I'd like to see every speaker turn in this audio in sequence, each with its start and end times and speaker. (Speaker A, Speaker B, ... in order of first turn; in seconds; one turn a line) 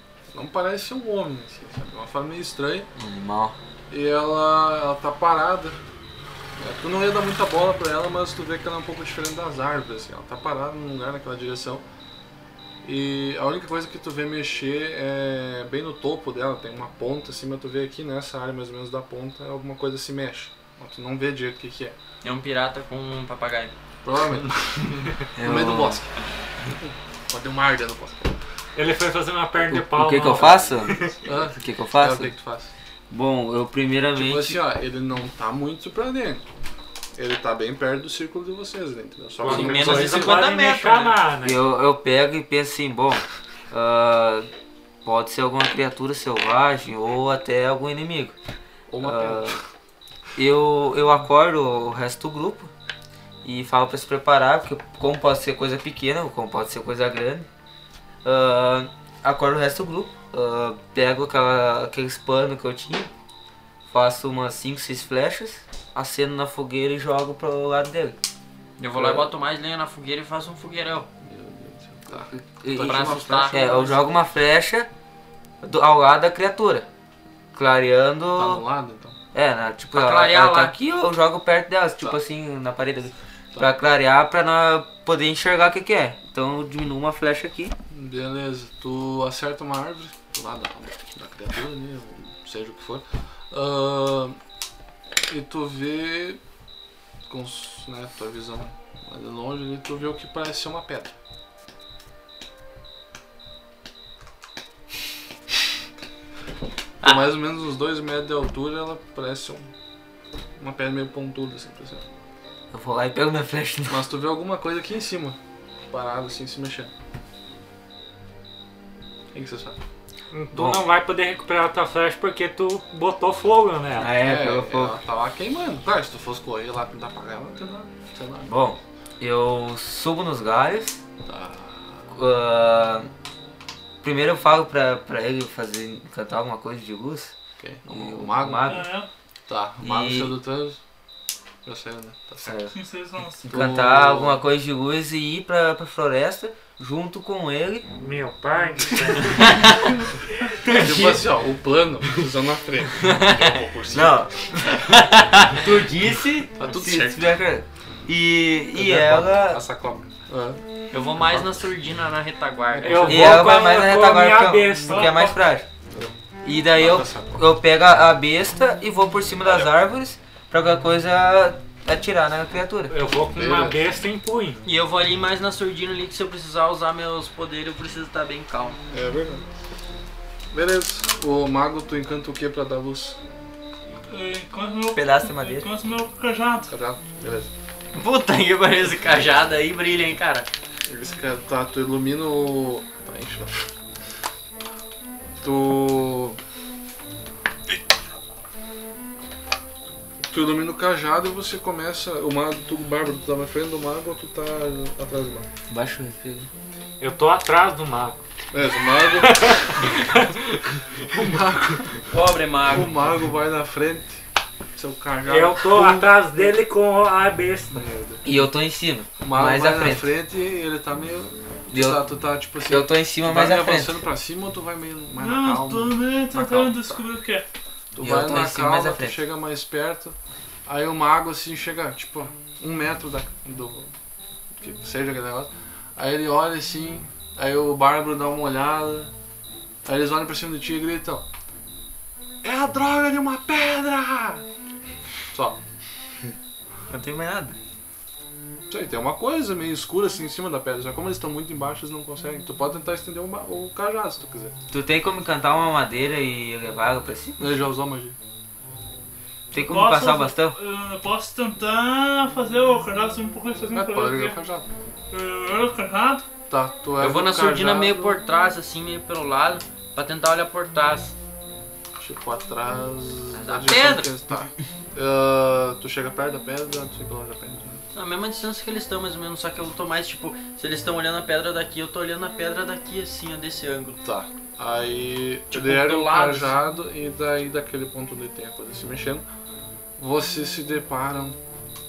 Speaker A: 0.3-2.9
Speaker B: 3.0-3.6
Speaker A: 3.9-5.8
Speaker A: 6.6-11.8
Speaker A: 12.8-22.0
Speaker C: 22.2-23.7
Speaker A: 24.0-28.4
Speaker B: 25.4-26.0
Speaker D: 28.8-31.2
Speaker B: 29.7-32.3
Speaker A: 31.2-32.7
Speaker B: 33.1-34.6
Speaker A: 34.1-36.4
Speaker A: 37.1-40.4
Speaker D: 39.4-41.6
Speaker C: 39.4-41.2
Speaker B: 41.4-44.5
Speaker B: 45.0-48.4
Speaker A: 48.9-49.6
Speaker B: 49.0-49.6
Speaker B: 50.4-52.7
Speaker B: 53.4-57.5
Speaker B: 58.2-63.1
Speaker B: 63.9-68.2
Speaker C: 68.8-71.1
Speaker A: 69.0-69.3
Speaker A: 71.2-74.1
Speaker B: 72.3-74.9
Speaker C: 72.8-74.0
Speaker B: 75.6-76.9
Speaker B: 77.5-78.6
Speaker A: 78.3-79.2
Speaker B: 79.3-87.8
Speaker C: 79.9-80.8
Speaker A: 87.9-94.4
Speaker A: 95.2-96.4
Speaker A: 97.3-101.1
Speaker A: 107.0-109.7
Speaker A: 110.6-112.0
Speaker B: 112.7-114.0
Speaker A: 113.9-115.4
Speaker A: 115.9-116.9
Speaker A: 119.3-119.8
Speaker D: 120.3-124.1
Speaker B: 120.5-120.8
Speaker B: 124.0-125.0
Speaker A: 124.2-128.5
Speaker B: 128.5-131.0
Speaker A: 131.2-132.1
Speaker B: 132.1-133.1
Speaker B: 134.0-137.3
Speaker A: 137.6-138.9
Speaker B: 137.9-139.0
Speaker E: 138.7-139.1
Speaker A: 139.5-140.8
Speaker B: 139.8-140.3
Speaker A: 141.7-142.7
Speaker B: 142.4-142.8
Speaker E: 142.7-143.5
Speaker B: 143.4-147.9
Speaker A: 143.5-144.4
Speaker D: 148.0-149.7
Speaker B: 150.6-151.2
Speaker A: 150.7-154.5
Speaker C: 153.0-153.6
Speaker B: 153.9-159.6
Speaker C: 154.9-155.5
Speaker A: 156.6-157.4
Speaker A: 158.7-161.7
Speaker C: 160.9-163.2
Speaker A: 162.7-163.5
Speaker D: 162.8-165.3
Speaker B: 163.1-165.7
Speaker E: 164.9-165.4
Speaker A: 165.9-166.2
Speaker B: 166.4-173.0
Speaker A: 166.7-167.4
Speaker A: 169.4-169.7
Speaker D: 172.9-174.6
Speaker A: 173.3-173.9
Speaker C: 174.7-178.8
Speaker A: 178.9-179.4
Speaker A: 180.5-183.2
Speaker E: 184.1-186.7
Speaker B: 184.9-185.7
Speaker A: 186.7-187.5
Speaker C: 187.9-190.5
Speaker A: 190.9-193.7
Speaker A: 195.4-196.4
Speaker A: 200.3-205.5
Speaker B: 205.7-206.5
Speaker D: 207.0-208.2
Speaker A: 208.5-209.9
Speaker D: 209.2-210.4
Speaker A: 211.0-212.1
Speaker C: 212.1-212.9
Speaker A: 212.7-214.2
Speaker A: 214.8-216.5
Speaker D: 215.3-217.8
Speaker A: 217.7-218.4
Speaker B: 218.2-220.1
Speaker A: 219.2-227.1
Speaker B: 221.7-222.0
Speaker B: 222.7-223.9
Speaker E: 225.2-227.5
Speaker A: 227.9-233.9
Speaker B: 228.0-229.2
Speaker A: 234.5-239.1
Speaker A: 239.8-241.3
Speaker A: 242.4-244.4
Speaker A: 245.3-245.6
Speaker B: 246.9-247.6
Speaker A: 248.7-254.6
Speaker B: 254.7-257.6
Speaker A: 257.4-258.2
Speaker B: 259.5-260.6
Speaker E: 259.6-264.4
Speaker A: 263.7-264.7
Speaker E: 265.1-266.3
Speaker A: 266.5-268.2
Speaker C: 267.0-271.1
Speaker A: 272.0-277.8
Speaker C: 273.3-274.1
Speaker C: 277.9-284.0
Speaker A: 284.0-289.2
Speaker C: 285.5-286.6
Speaker A: 290.0-291.4